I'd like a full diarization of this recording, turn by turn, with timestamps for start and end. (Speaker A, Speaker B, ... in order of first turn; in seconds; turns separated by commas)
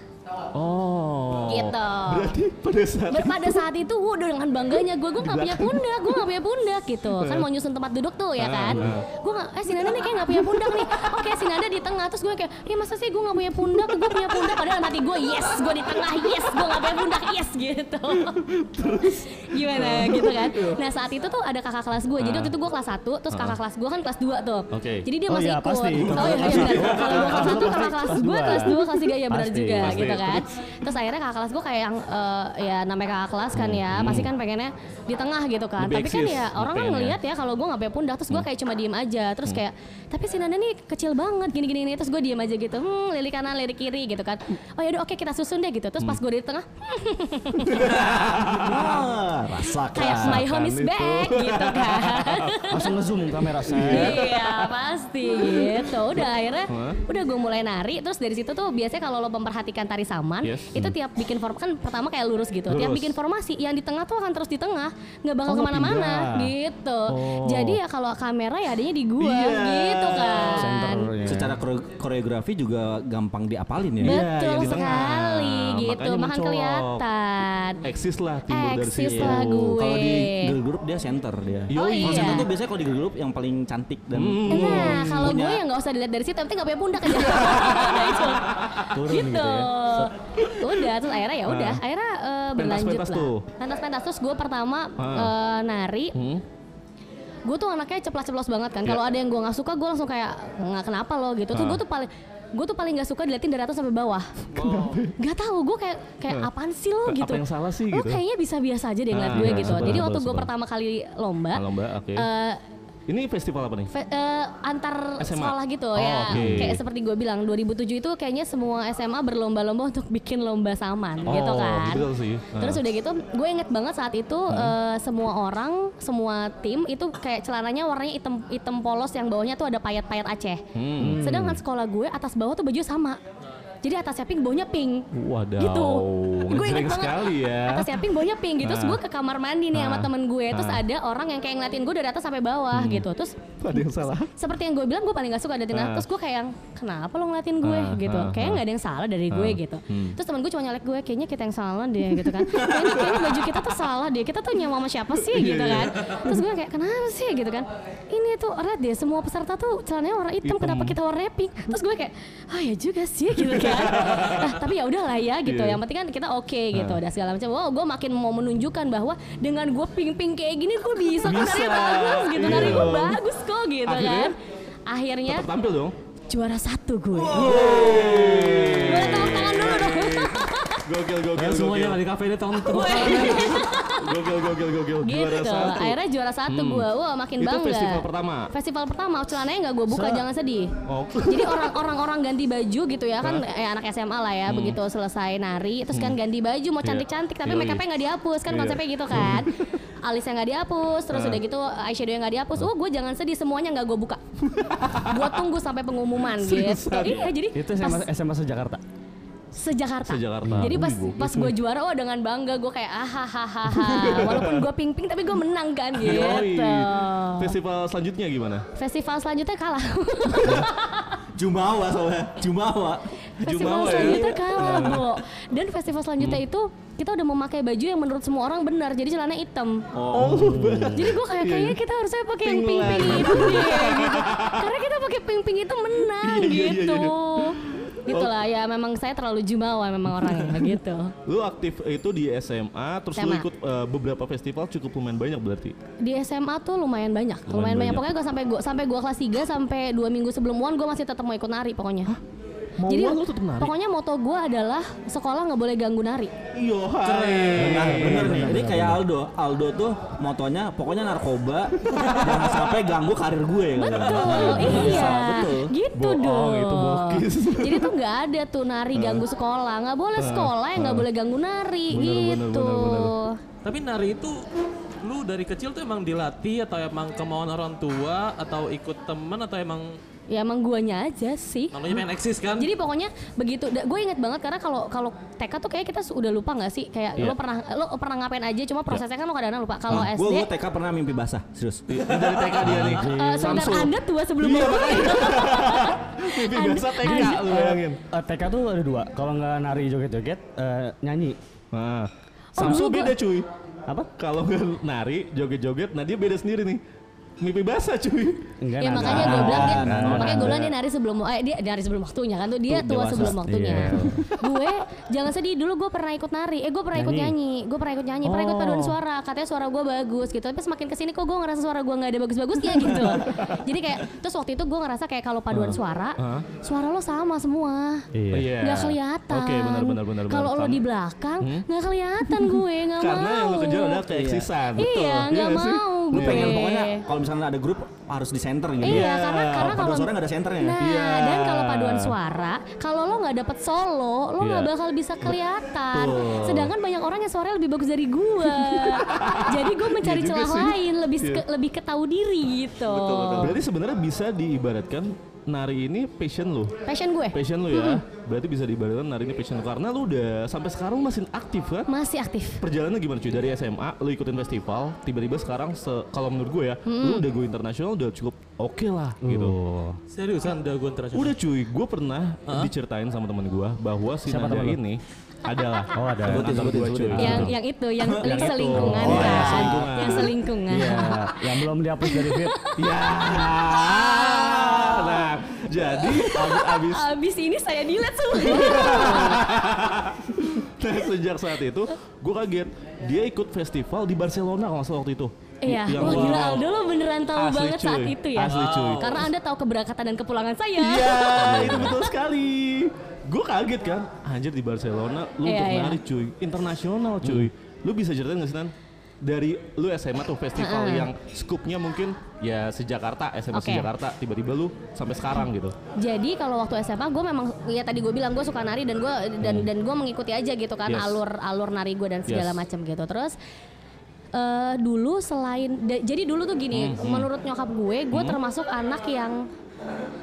Speaker A: 0.5-3.6, Speaker B: 1.5-2.4, Speaker B: 3.1-18.5, Speaker A: 5.2-6.0, Speaker A: 7.1-7.5, Speaker A: 8.4-9.1, Speaker A: 10.4-11.0, Speaker A: 13.8-14.6, Speaker A: 18.2-20.8, Speaker B: 19.1-48.0, Speaker A: 22.2-22.5, Speaker A: 23.3-23.6, Speaker A: 24.7-25.1, Speaker C: 25.3-30.1, Speaker A: 25.9-28.8, Speaker A: 29.8-30.5, Speaker A: 33.5-34.3, Speaker A: 35.8-37.2, Speaker A: 47.7-48.8, Speaker D: 47.8-50.5, Speaker B: 49.9-52.9, Speaker A: 50.0-52.7, Speaker C: 52.7-54.2, Speaker A: 53.7-54.8, Speaker B: 53.8-71.1, Speaker A: 55.3-57.0, Speaker A: 60.4-61.0, Speaker A: 62.7-63.2, Speaker A: 65.5-66.5, Speaker C: 67.1-67.8, Speaker A: 69.2-70.7, Speaker C: 70.5-71.6, Speaker D: 71.2-75.0, Speaker A: 74.0-77.0, Speaker B: 74.0-77.8, Speaker A: 77.8-79.8, Speaker B: 78.5-80.5, Speaker D: 79.1-85.6, Speaker A: 81.7-82.5, Speaker B: 81.7-82.5, Speaker A: 84.1-85.4, Speaker B: 84.5-96.2, Speaker A: 87.1-88.9, Speaker C: 88.9-90.1, Speaker A: 90.4-90.9, Speaker A: 91.5-91.8, Speaker A: 92.6-93.5, Speaker A: 95.0-95.3, Speaker A: 96.1-96.4, Speaker B: 97.5-111.6, Speaker A: 101.5-101.8, Speaker A: 104.5-105.2, Speaker A: 107.1-108.2, Speaker A: 109.1-110.5, Speaker C: 109.4-110.0, Speaker A: 111.5-112.3, Speaker B: 112.2-112.6, Speaker A: 113.1-113.9, Speaker B: 113.9-133.2, Speaker A: 115.2-116.8, Speaker C: 116.3-116.6, Speaker A: 121.2-122.8, Speaker A: 124.5-124.8, Speaker A: 130.8-131.6, Speaker C: 131.0-131.5, Speaker B: 133.8-174.3, Speaker A: 135.1-138.1, Speaker A: 138.6-139.0, Speaker A: 139.7-140.8, Speaker A: 142.7-143.1, Speaker A: 143.6-144.3, Speaker A: 145.7-146.1, Speaker A: 147.6-148.6, Speaker A: 149.3-150.2, Speaker A: 152.2-153.2, Speaker A: 155.2-156.4, Speaker A: 160.4-161.0, Speaker A: 163.4-164.6, Speaker A: 165.4-165.8, Speaker A: 166.7-167.0, Speaker A: 171.2-173.2, Speaker A: 173.9-174.3, Speaker B: 174.9-175.5, Speaker A: 175.3-175.9, Speaker B: 176.3-177.8, Speaker D: 177.1-179.2, Speaker A: 177.3-182.0, Speaker B: 178.7-180.8, Speaker E: 181.3-183.6, Speaker B: 182.6-184.3, Speaker A: 183.0-188.5, Speaker B: 185.0-204.2, Speaker C: 189.9-190.3, Speaker A: 190.9-191.8, Speaker A: 194.5-194.8, Speaker A: 195.9-196.2, Speaker A: 196.8-197.8, Speaker A: 198.5-199.6, Speaker A: 201.1-201.4, Speaker A: 204.4-205.4, Speaker B: 205.1-208.1, Speaker A: 206.2-207.3, Speaker C: 207.5-208.8, Speaker B: 209.5-217.6, Speaker A: 210.0-211.6, Speaker C: 210.4-210.8, Speaker A: 213.7-214.7, Speaker A: 216.0-218.7, Speaker B: 218.8-221.2, Speaker A: 220.4-220.7, Speaker D: 221.3-223.1, Speaker B: 223.4-229.9, Speaker A: 223.4-225.2, Speaker D: 223.6-224.5, Speaker D: 229.9-230.5, Speaker A: 230.1-231.8, Speaker C: 230.1-231.1, Speaker B: 230.9-241.2, Speaker A: 232.4-234.7, Speaker A: 236.2-238.3, Speaker A: 240.2-240.8, Speaker A: 241.3-245.8, Speaker B: 243.2-243.5, Speaker B: 246.0-252.2, Speaker A: 247.5-248.1, Speaker A: 252.8-253.7, Speaker B: 252.9-256.3, Speaker A: 256.5-258.8, Speaker E: 257.0-257.8, Speaker D: 257.3-265.8, Speaker C: 257.6-259.0, Speaker A: 261.9-262.5, Speaker B: 263.8-273.4, Speaker A: 264.0-265.4, Speaker C: 264.8-265.2, Speaker A: 265.9-267.9, Speaker A: 268.9-269.3, Speaker A: 270.2-271.1, Speaker A: 271.9-273.2, Speaker E: 273.6-274.5, Speaker E: 275.0-280.0, Speaker B: 280.3-282.0, Speaker E: 281.7-282.7, Speaker B: 282.6-290.5, Speaker D: 289.9-292.0, Speaker A: 291.9-298.0, Speaker E: 292.2-292.6, Speaker C: 292.6-293.8, Speaker B: 293.0-297.4, Speaker C: 297.0-301.4, Speaker A: 301.7-303.5, Speaker B: 302.5-303.2, Speaker A: 304.1-306.8, Speaker A: 307.4-308.5, Speaker C: 308.6-310.6, Speaker B: 308.8-334.0, Speaker D: 309.0-310.5, Speaker A: 309.0-310.8, Speaker D: 312.7-313.5, Speaker C: 313.2-314.3, Speaker A: 313.7-314.2, Speaker C: 316.9-317.4, Speaker C: 318.3-319.0, Speaker A: 322.7-323.6, Speaker A: 325.5-326.5, Speaker C: 328.1-328.5, Speaker A: 328.3-330.9, Speaker A: 331.4-331.7, Speaker A: 332.2-336.7, Speaker D: 334.1-334.5, Speaker B: 334.8-337.1, Speaker D: 336.1-340.8, Speaker B: 338.8-353.6, Speaker A: 338.8-339.9, Speaker A: 340.8-342.2, Speaker A: 344.4-344.7, Speaker A: 345.9-346.7, Speaker A: 348.6-351.4, Speaker E: 352.9-353.6, Speaker A: 353.4-356.7, Speaker B: 356.9-358.0, Speaker A: 357.3-361.9, Speaker B: 361.9-362.6, Speaker A: 362.6-369.6, Speaker B: 366.9-367.3, Speaker C: 369.2-370.0, Speaker E: 370.1-371.4, Speaker A: 371.1-377.6, Speaker C: 374.2-374.8, Speaker C: 375.9-377.5, Speaker D: 376.2-377.5, Speaker B: 377.1-381.4, Speaker D: 378.0-378.5, Speaker A: 378.2-380.4, Speaker C: 378.7-380.0, Speaker D: 379.0-379.9, Speaker C: 380.7-382.7, Speaker B: 382.0-385.3, Speaker A: 382.8-387.1, Speaker B: 385.9-389.5, Speaker A: 388.3-396.7, Speaker B: 395.6-402.1, Speaker A: 397.4-399.3, Speaker E: 398.4-399.2, Speaker A: 400.8-415.8, Speaker B: 405.4-406.0, Speaker B: 410.6-411.1, Speaker B: 413.5-413.9, Speaker B: 416.0-423.4, Speaker A: 419.4-419.7, Speaker A: 420.9-421.2, Speaker A: 422.3-422.6, Speaker B: 424.3-429.5, Speaker A: 426.7-427.3, Speaker A: 428.1-428.4